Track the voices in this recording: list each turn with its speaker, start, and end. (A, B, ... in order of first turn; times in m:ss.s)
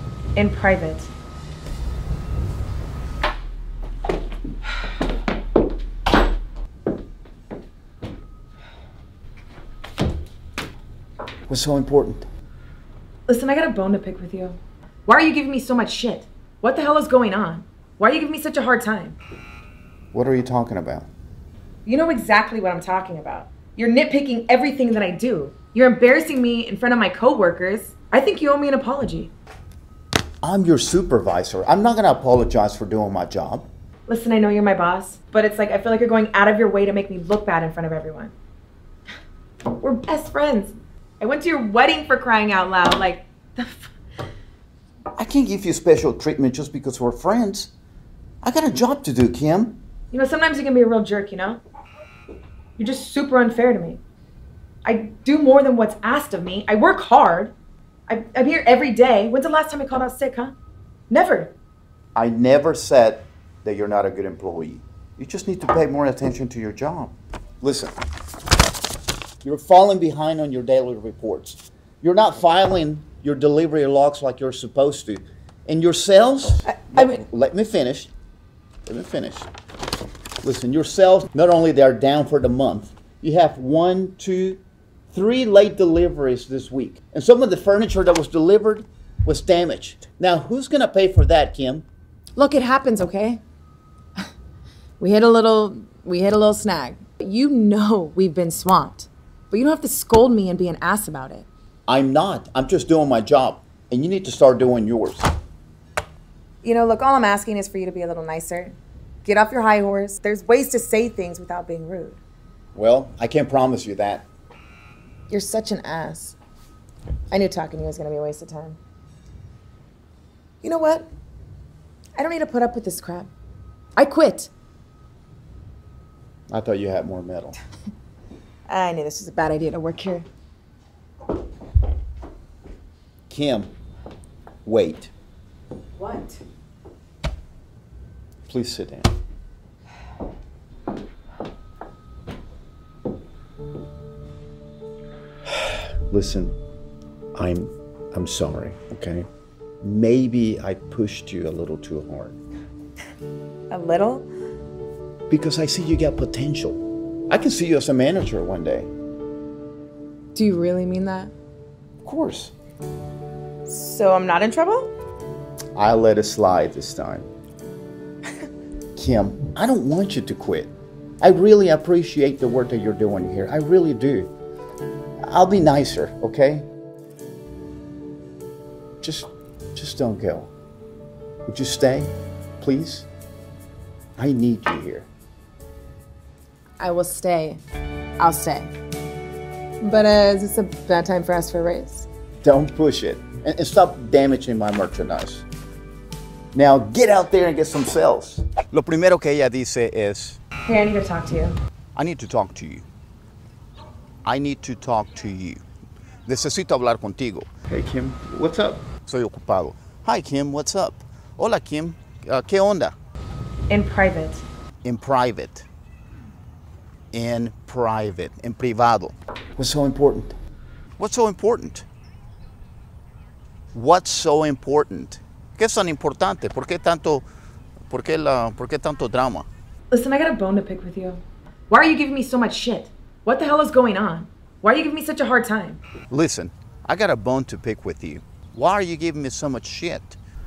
0:00.3-0:01.1 A
0:11.5-0:12.3 B
0:13.3-0:19.2 A
0:20.1-0:21.1 B
0:21.8-0:29.3 A
0:30.4-0:33.7 B
0:34.1-0:38.3 A
0:39.8-0:43.9 A
0:45.2-0:47.7 B
0:48.4-0:49.8 B
0:50.1-0:51.6 A
0:52.8-0:54.0 A
0:54.8-0:57.5 A
0:58.1-1:00.5 A
1:01.1-1:01.5 A
1:02.1-1:07.9 B
1:09.4-1:18.1 B
1:16.7-1:17.2 A
1:18.9-1:19.5 B
1:20.4-1:24.6 B
1:25.1-1:31.8 B
1:32.4-1:33.4 A
1:35.0-1:41.5 A
1:41.9-1:45.3 B
1:46.6-1:52.2 A
1:52.7-1:54.3 B
1:55.3-1:56.4 A
1:57.3-1:58.8 A
2:00.6-2:01.1 A
2:02.2-2:03.3 A
2:04.0-2:04.5 A
2:06.5-2:07.6 B
2:08.7-2:10.2 A
2:13.3-2:13.7 B
2:14.6-2:15.1 B
2:16.0-2:16.4 A
2:18.5-2:19.1 B
2:25.5-2:26.6 B
2:27.4-2:29.3 B
2:29.8-2:32.4 B
2:33.7-2:34.3 A
2:35.3-2:38.9 B
2:40.3-2:41.3 A
2:42.0-2:42.5 B
2:43.6-2:44.9 A
2:45.8-2:47.3 B
2:49.0-2:54.3 B
2:55.2-2:56.7 B
2:59.0-3:00.5 B
3:01.5-3:03.1 B
3:04.2-3:05.1 B
3:06.8-3:07.6 A
3:08.2-3:08.7 A
3:09.8-3:12.1 A
3:12.4-3:15.4 B
3:16.5-3:20.4 B
3:20.7-3:21.6 A
3:22.0-3:22.8 B
3:24.2-3:25.6 B
3:26.2-3:32.9 B
3:33.7-3:34.4 A
3:34.8-3:35.7 B
3:37.1-3:40.4 B
3:41.0-3:41.8 B
3:43.7-3:47.2 B
3:47.9-3:49.5 B
3:49.9-3:55.8 A
3:56.1-4:00.2 B